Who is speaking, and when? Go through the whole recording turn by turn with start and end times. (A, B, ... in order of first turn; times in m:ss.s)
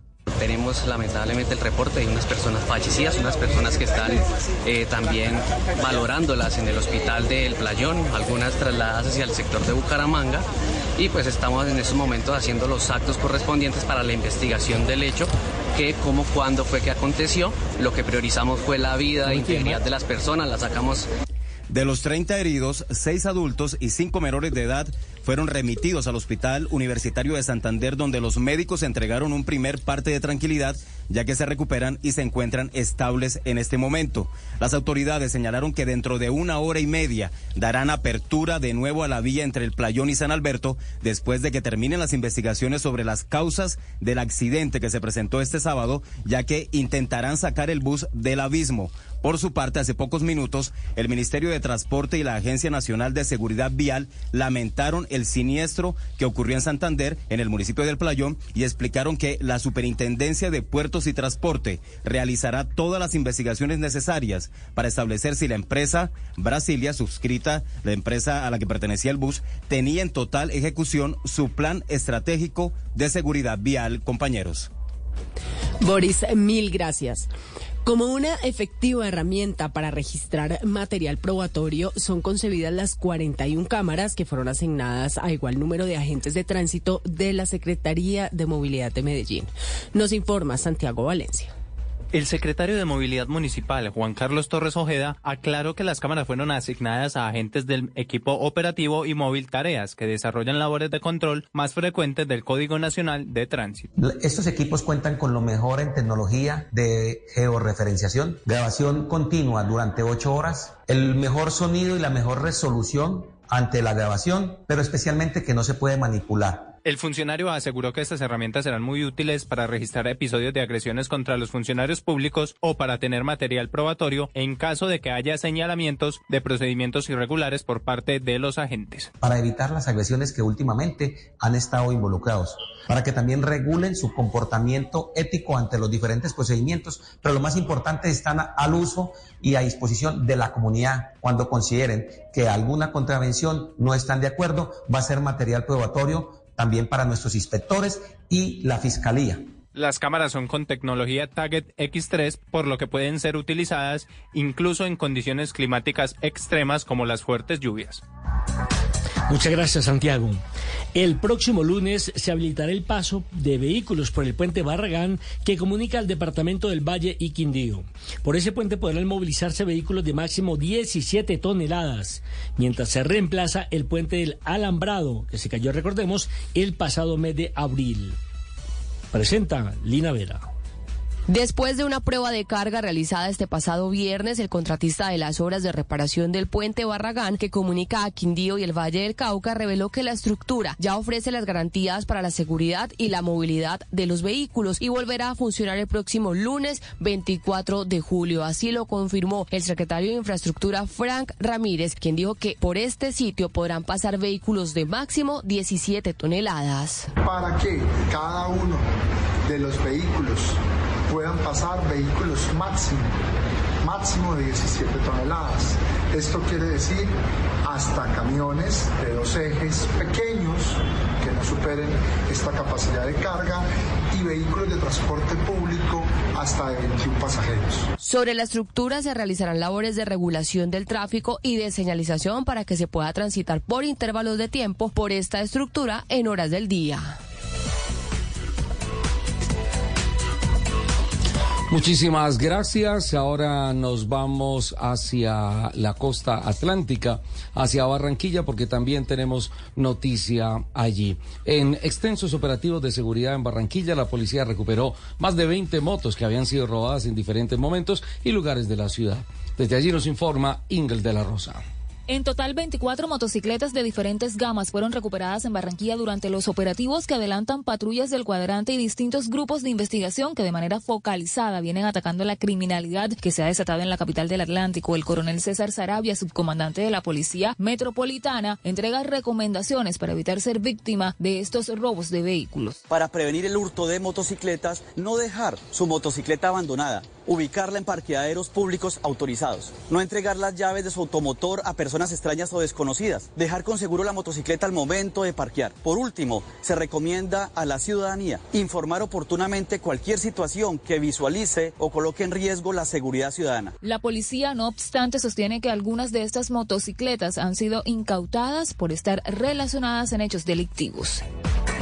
0:00.3-0:21.1 A
0:21.7-1:14.7 B
1:15.8-1:17.3 C
1:17.8-1:31.5 C
1:32.1-1:43.9 D
1:44.0-1:56.8 E
1:56.8-2:09.1 D
2:09.2-2:29.5 E
2:29.7-2:38.0 D
2:39.3-2:40.4 F
2:40.9-2:58.2 F
2:59.1-3:00.4 F
3:01.3-3:27.1 G
3:27.2-3:28.9 H
3:29.4-3:33.1 H
3:33.8-3:37.1 H
3:37.6-3:47.9 H
3:48.0-3:57.2 G
4:01.7-4:21.6 I
4:22.1-4:42.7 J
4:42.9-5:03.7 K
5:03.8-5:11.2 J